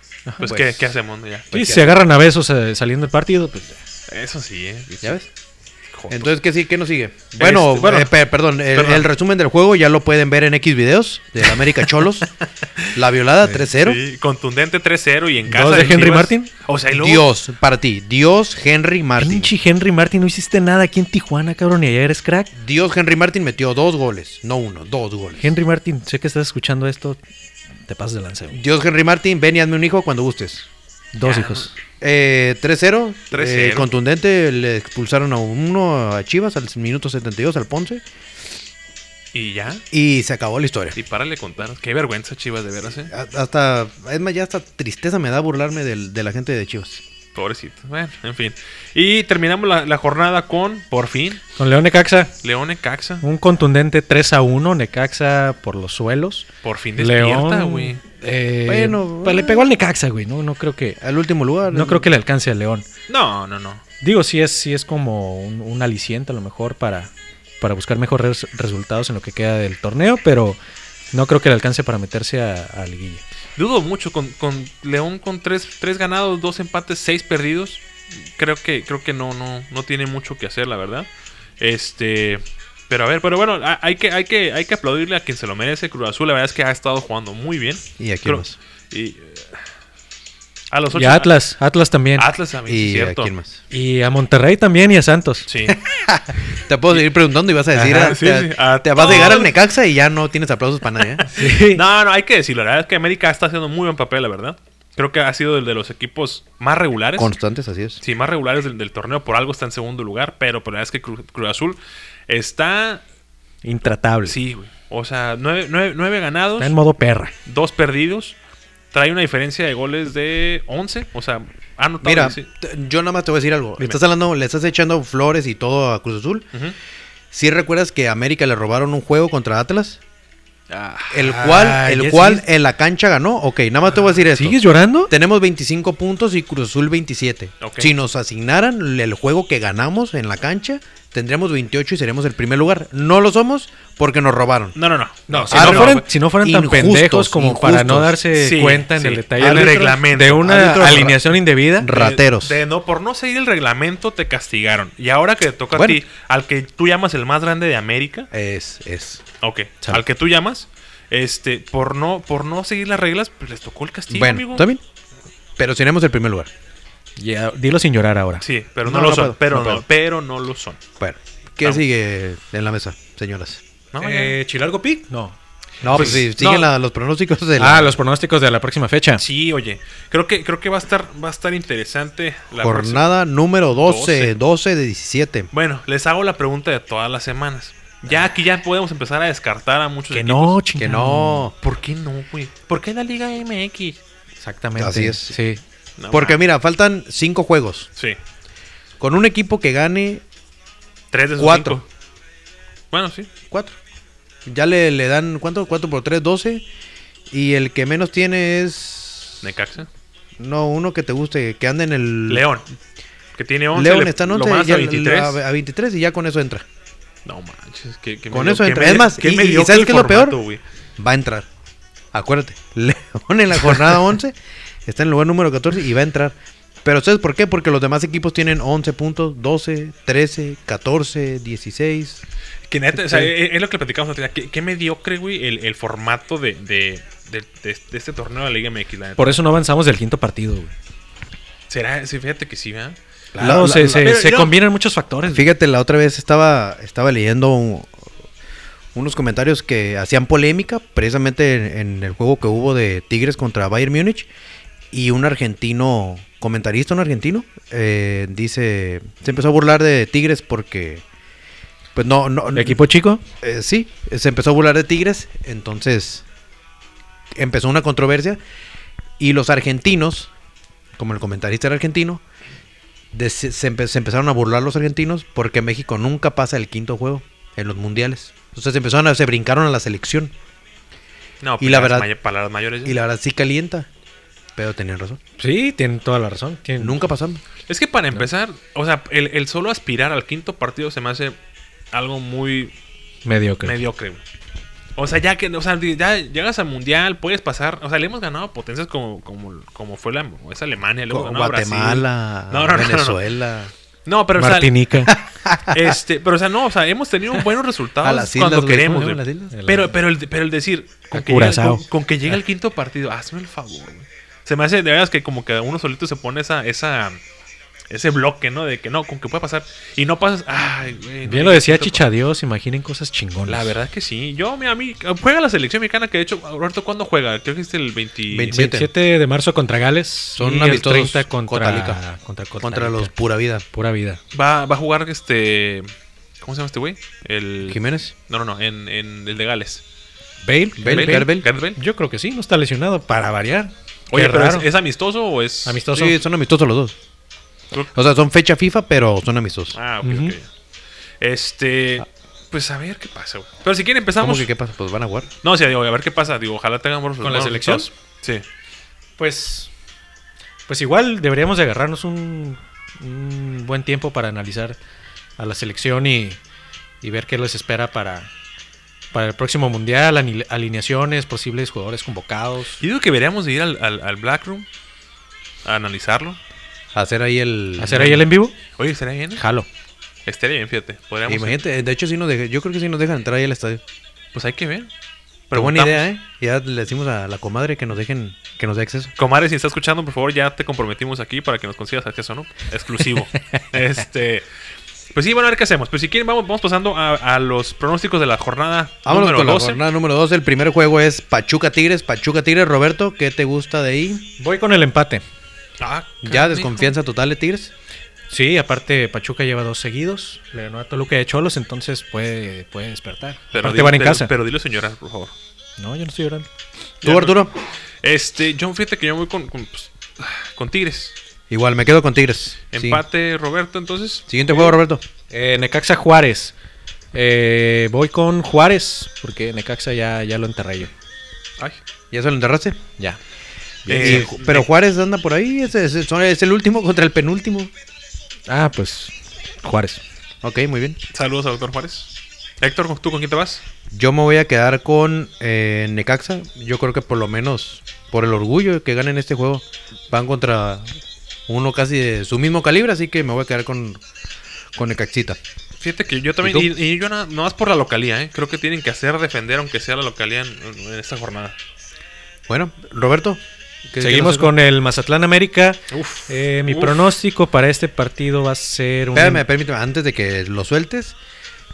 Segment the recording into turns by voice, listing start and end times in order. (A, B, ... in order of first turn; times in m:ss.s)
0:00.4-0:01.5 A
0:00.4-0:00.9 B
0:01.5-0:02.0 B
0:01.5-0:03.8 C
0:04.1-0:05.2 A
0:05.0-0:05.3 B
0:05.9-0:06.3 A
0:06.1-0:12.3 B
0:07.4-0:08.2 A
0:08.7-0:09.1 A
0:12.9-0:14.0 B
0:13.7-0:17.3 A
0:15.5-0:16.5 C
0:16.9-0:19.5 B
0:19.2-0:22.5 C
0:22.6-0:25.5 B
0:25.4-0:27.2 C
0:27.9-0:28.6 C
0:28.5-0:30.7 B
0:31.1-0:31.7 C
0:31.2-0:31.7 A
0:32.0-0:38.0 B
0:33.3-0:33.9 A
0:39.3-0:39.8 A
0:39.9-0:41.0 B
0:41.0-0:43.1 A
0:43.1-0:47.0 B
0:47.4-0:51.4 A
0:51.6-0:52.3 C
0:52.4-0:53.2 A
0:53.2-1:01.0 C
0:56.6-0:58.0 A
0:58.7-0:59.7 B
1:01.0-1:02.1 B
1:01.7-1:02.9 C
1:03.1-1:03.8 A
1:04.0-1:10.6 C
1:11.1-1:13.2 C
1:13.6-1:17.8 A
1:18.4-1:21.1 A
1:21.6-1:29.6 A
1:28.0-1:28.6 B
1:30.7-1:31.4 A
1:30.9-1:32.3 C
1:32.2-1:33.3 A
1:32.7-1:33.6 B
1:33.7-1:35.5 C
1:35.5-1:35.8 A
1:35.8-1:41.3 B
1:37.8-1:39.6 A
1:37.8-1:38.1 C
1:41.2-1:47.3 A
1:41.3-1:41.8 C
1:47.2-1:48.0 B
1:48.0-1:53.0 A
1:53.6-1:54.4 C
1:54.3-1:56.8 A
1:56.6-1:57.3 C
1:57.5-1:58.4 A
1:58.9-2:02.5 A
2:02.0-2:06.5 B
2:07.3-2:10.0 B
2:10.7-2:11.3 A
2:11.1-2:24.8 B
2:11.2-2:12.4 C
2:14.3-2:15.1 C
2:17.6-2:17.9 A
2:24.8-2:26.0 A
2:25.3-2:31.9 C
2:25.5-2:28.2 B
2:28.4-2:30.6 A
2:29.4-2:32.6 B
2:31.9-2:38.3 A
2:35.7-2:36.0 B
2:38.3-2:39.2 B
2:39.4-2:44.7 A
2:44.1-2:44.8 B
2:45.6-2:46.5 B
2:47.2-2:48.4 C
2:48.4-2:50.8 A
2:48.8-2:49.8 B
2:51.0-2:53.6 B
2:53.9-2:54.4 A
2:54.0-2:55.4 C
2:55.8-2:58.0 B
2:55.8-2:56.7 A
2:55.9-2:56.2 C
2:57.6-2:59.2 C
2:59.2-3:03.1 A
3:02.6-3:05.5 B
3:03.8-3:04.3 A
3:05.5-3:10.6 A
3:10.1-3:11.5 C
3:10.8-3:11.5 B
3:11.6-3:14.0 A
3:14.4-3:15.6 C
3:14.8-3:15.4 B
3:16.0-3:16.4 A
3:16.1-3:17.9 B
3:19.0-3:20.2 B
3:21.1-3:21.8 A
3:21.4-3:21.8 B
3:22.9-3:23.3 A
3:23.5-3:23.8 B
3:24.5-3:26.6 B
3:27.3-3:29.4 B
3:29.4-3:29.9 A
3:30.4-3:32.5 B
3:32.3-3:32.6 A
3:33.4-3:35.4 A
3:33.7-3:36.6 B
3:37.2-3:40.6 A
3:38.3-3:40.4 B
3:41.0-3:41.5 B
3:42.1-3:52.2 B
3:52.7-3:59.4 A
3:59.2-4:00.7 C
4:01.7-4:04.6 A
4:03.4-4:04.1 B
4:03.4-4:05.5 C
4:05.3-4:07.9 B
4:09.0-4:14.3 B
4:14.9-4:21.0 B
4:22.0-4:22.8 B
4:22.6-4:23.2 C
4:23.4-4:26.2 B
4:27.4-4:28.4 B
4:29.2-4:30.3 B
4:31.0-4:32.2 B
4:33.1-4:40.3 B
4:41.4-4:43.0 A
4:41.6-4:42.1 B
4:42.8-4:43.9 B
4:44.6-4:45.2 B
4:45.4-4:47.0 C
4:46.8-4:47.4 B
4:47.7-4:51.4 A
4:51.9-4:52.7 A
4:53.2-4:53.8 C
4:53.6-4:54.2 A
4:55.0-5:03.2 A
5:01.1-5:03.7 B
5:04.1-5:04.8 A
5:04.4-5:05.1 C
5:05.1-5:05.9 B
5:05.7-5:17.2 A
5:08.0-5:09.6 B
5:09.5-5:09.9 C
5:11.1-5:11.8 C
5:17.9-5:22.0 A
5:21.2-5:23.7 C
5:23.5-5:28.6 A
5:28.3-5:28.9 B
5:28.5-5:33.1 C
5:30.4-5:32.0 B
5:32.6-5:33.6 B
5:33.7-5:34.2 C
5:34.3-5:35.9 A
5:36.4-5:39.8 A
5:37.7-5:38.1 B
5:40.4-5:44.7 C
5:40.8-5:41.5 B
5:40.8-5:41.8 A
5:44.1-5:45.8 A
5:45.6-5:46.2 C
5:45.9-5:47.0 B
5:47.9-5:49.8 B
5:49.7-5:50.5 A
5:50.0-5:50.4 C
5:51.2-5:54.5 A
5:54.2-5:55.3 B
5:55.4-5:58.4 A
5:57.2-5:57.9 C
5:59.2-5:59.7 C
6:00.7-6:04.8 C
6:05.4-6:06.4 C
6:07.0-6:08.3 C
6:09.1-6:12.8 C
6:12.8-6:14.7 A
6:15.6-6:16.4 A
6:16.9-6:18.2 B
6:17.8-6:18.6 C
6:17.9-6:18.2 A
6:18.8-6:19.4 A
6:19.4-6:19.7 C
6:20.3-6:21.6 A
6:21.3-6:23.8 B
6:24.3-6:24.9 A
6:25.5-6:26.1 A
6:25.5-6:29.1 B
6:29.2-6:34.4 A
6:35.1-6:39.8 A
6:39.0-6:44.3 B
6:44.4-6:45.2 C
6:45.8-6:46.9 A
6:46.2-6:47.7 B
6:48.3-6:54.3 C
6:53.5-6:55.3 A
6:55.8-6:56.5 C
6:57.0-6:57.4 A
6:57.0-6:57.5 B
6:58.0-7:01.2 A
7:01.5-7:03.0 B
7:02.7-7:04.8 A
7:04.3-7:05.0 B
7:05.3-7:06.5 C
7:07.1-7:10.9 C
7:12.1-7:12.8 B
7:13.9-7:14.3 C
7:13.9-7:14.7 A
7:14.0-7:17.7 B
7:18.5-7:20.0 C
7:20.4-7:21.0 B
7:21.1-7:22.1 A
7:22.6-7:23.6 A
7:23.9-7:30.9 B
7:31.5-7:34.0 B
7:34.8-7:35.4 B
7:35.8-7:41.6 A
7:36.4-7:36.7 B
7:42.5-7:44.5 B
7:44.0-7:49.4 C
7:45.9-7:47.1 A
7:49.1-7:51.2 B